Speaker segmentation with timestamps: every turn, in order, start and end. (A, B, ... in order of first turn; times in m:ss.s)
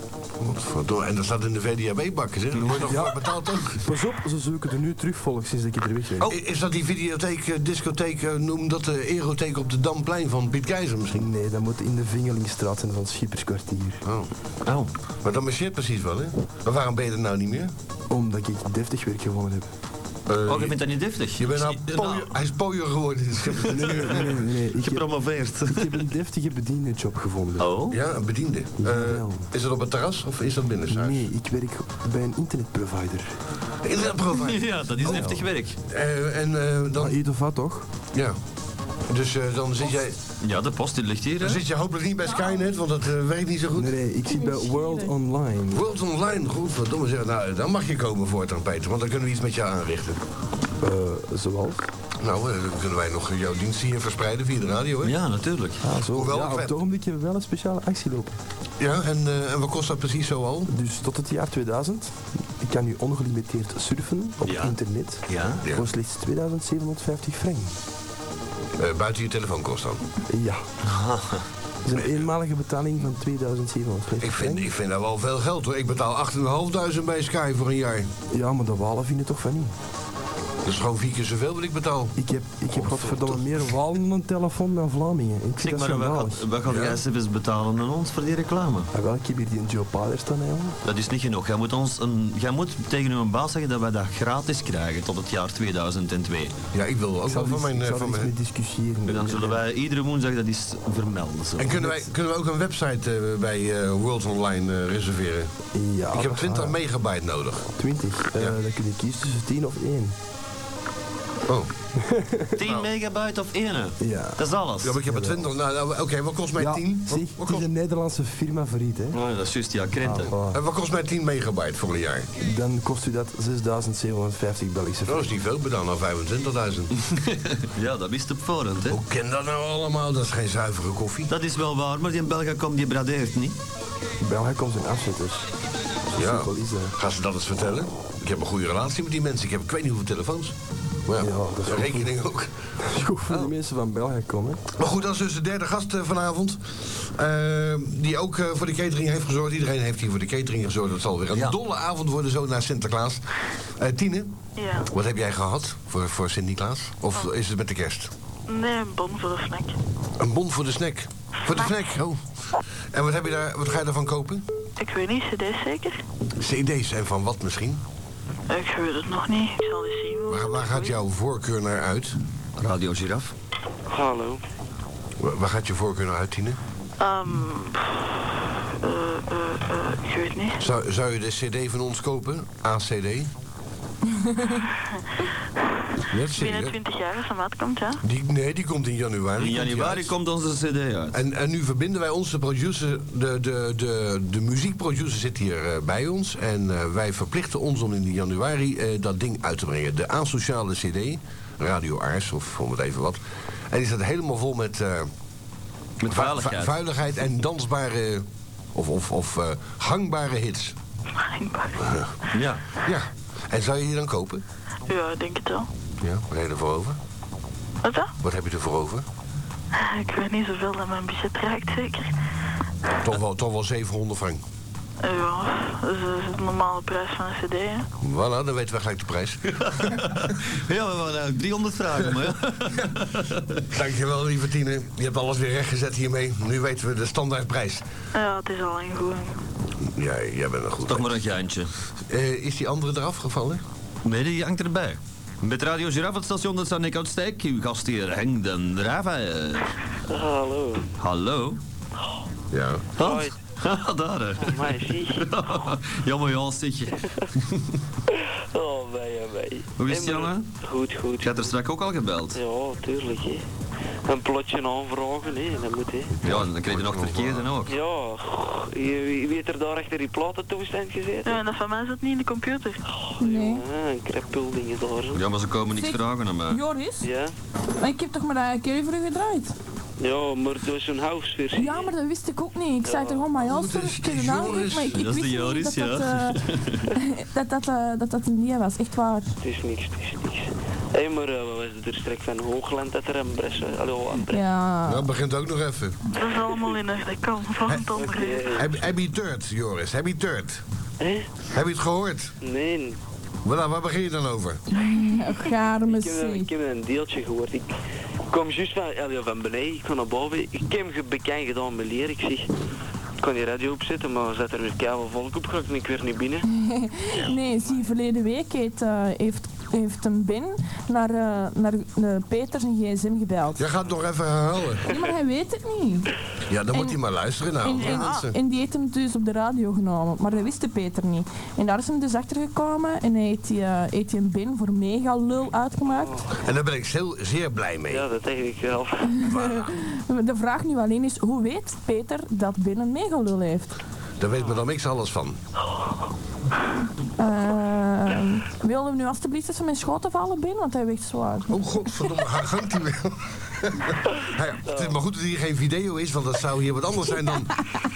0:00.4-0:03.8 A
0:02.7-0:06.4 B
0:06.2-0:11.3 A
0:11.2-0:14.0 B
0:14.0-0:14.3 A
0:15.2-0:17.7 A
0:18.1-0:19.7 B
0:20.3-0:20.8 A
0:20.5-0:22.3 C
0:21.4-0:24.3 A
0:23.6-0:25.1 B
0:24.8-0:26.0 C
0:25.6-0:27.7 B
0:27.6-0:28.0 C
0:27.9-0:31.2 A
0:28.8-0:29.5 B
0:30.9-0:33.4 B
0:33.8-0:37.2 A
0:34.3-0:35.8 C
0:35.0-0:35.4 B
0:37.0-0:37.9 B
0:39.1-0:40.2 A
0:40.4-0:41.6 C
0:41.4-0:44.0 A
0:42.3-0:42.7 D
0:43.8-0:45.8 B
0:44.3-0:45.1 D
0:45.7-0:50.2 A
0:50.8-0:51.9 B
0:52.2-0:55.2 A
0:55.0-0:55.8 C
0:55.8-0:58.4 B
0:56.1-0:56.7 A
0:58.8-1:00.7 A
1:00.7-1:07.8 B
1:04.4-1:04.8 C
1:05.3-1:05.6 C
1:08.8-1:10.0 A
1:10.3-1:10.6 B
1:10.8-1:11.4 C
1:11.8-1:14.7 B
1:11.9-1:12.2 A
1:14.2-1:18.1 A
1:18.3-1:19.7 B
1:20.6-1:22.2 A
1:22.2-1:26.5 B
1:22.7-1:23.4 A
1:25.6-1:28.9 C
1:26.7-1:27.0 A
1:28.9-1:30.8 B
1:30.8-1:36.5 C
1:36.7-1:38.3 A
1:37.3-1:39.6 B
1:39.1-1:41.8 C
1:41.6-1:45.5 A
1:41.8-1:42.1 B
1:45.7-1:46.8 B
1:46.1-1:47.7 A
1:47.8-1:50.2 B
1:52.0-1:52.6 B
1:52.6-1:55.0 C
1:54.0-1:54.4 B
1:54.8-1:57.7 A
1:55.0-1:55.5 B
1:56.6-1:59.2 B
1:59.1-2:00.3 C
2:00.0-2:00.6 B
2:00.5-2:02.3 A
2:02.4-2:05.3 B
2:05.1-2:07.0 A
2:07.4-2:09.0 C
2:08.9-2:11.3 A
2:11.3-2:13.6 C
2:14.2-2:15.5 B
2:16.1-2:17.0 B
2:16.2-2:20.5 A
2:21.1-2:22.5 A
2:21.2-2:22.2 B
2:22.8-2:24.6 B
2:24.8-2:33.2 A
2:33.8-2:34.3 A
2:34.6-2:34.9 E
2:34.9-2:38.1 A
2:38.5-2:39.8 E
2:40.2-2:42.2 A
2:41.5-2:41.8 E
2:42.9-2:44.4 A
2:44.8-2:46.0 E
2:46.4-2:47.8 A
2:48.5-2:51.0 E
2:50.3-2:52.2 A
2:52.6-2:53.3 C
2:53.9-2:54.4 F
2:55.2-2:56.6 A
2:57.0-2:58.2 E
2:58.8-3:00.6 E
3:00.6-3:03.3 A
3:06.1-3:06.8 A
3:06.3-3:08.0 E
3:08.0-3:10.1 A
3:09.4-3:11.2 C
3:11.1-3:23.2 A
3:23.7-3:25.1 A
3:26.0-3:26.7 C
3:26.1-3:30.8 A
3:31.2-3:31.8 E
3:31.8-3:32.1 A
3:32.3-3:32.6 C
3:32.8-3:34.4 A
3:34.9-3:35.7 E
3:36.0-3:37.0 A
3:37.8-3:38.1 E
3:38.2-3:39.1 A
3:39.7-3:42.1 E
3:43.0-3:44.4 A
3:45.0-3:47.9 E
3:48.0-3:50.1 A
3:49.8-3:53.4 C
3:53.7-3:57.8 A
3:58.1-3:59.4 E
3:59.9-4:01.2 A
4:00.9-4:01.7 C
4:02.1-4:03.6 A
4:04.0-4:09.7 C
4:10.1-4:10.9 F
4:11.0-4:11.6 C
4:12.5-4:12.9 A
4:13.0-4:13.4 F
4:13.0-4:17.6 C
4:14.4-4:15.4 F
4:18.1-4:21.5 F
4:19.8-4:20.5 C
4:21.2-4:22.4 C
4:22.4-4:23.4 F
4:24.1-4:26.2 F
4:26.2-4:27.5 A
4:26.2-4:27.8 C
4:27.7-4:31.4 F
4:31.2-4:32.8 E
4:33.0-4:35.2 F
4:33.2-4:33.6 D
4:35.1-4:36.6 C
4:35.8-4:37.1 D
4:37.0-4:37.3 F
4:37.8-4:39.6 D
4:40.0-4:41.9 F
4:41.6-4:49.3 D
4:42.8-4:43.4 F
4:43.4-4:45.0 A
4:44.9-4:46.9 C
4:49.4-4:54.4 F
4:54.3-4:55.1 D
4:54.8-4:56.0 A
4:56.1-4:58.6 E
4:57.7-4:58.0 A
4:58.0-4:58.9 F
4:58.5-5:00.6 A
5:01.0-5:01.3 F
5:01.5-5:02.3 A
5:02.4-5:03.0 F
5:03.4-5:04.6 A
5:04.7-5:06.5 D
5:05.9-5:07.7 F
5:08.3-5:12.5 F
5:13.2-5:16.4 F
5:16.5-5:23.6 D
5:23.6-5:24.9 A
5:24.9-5:26.1 D
5:26.5-5:28.4 A
5:26.7-5:27.0 D
5:27.6-5:36.2 D
5:27.8-5:28.2 E
5:35.9-5:36.3 F
5:36.4-5:38.1 A
5:37.9-5:39.2 F
5:39.1-5:43.8 D
5:39.3-5:39.7 A
5:44.2-5:45.4 A
5:47.2-5:51.5 D
5:51.5-5:57.7 A
5:54.7-5:55.0 F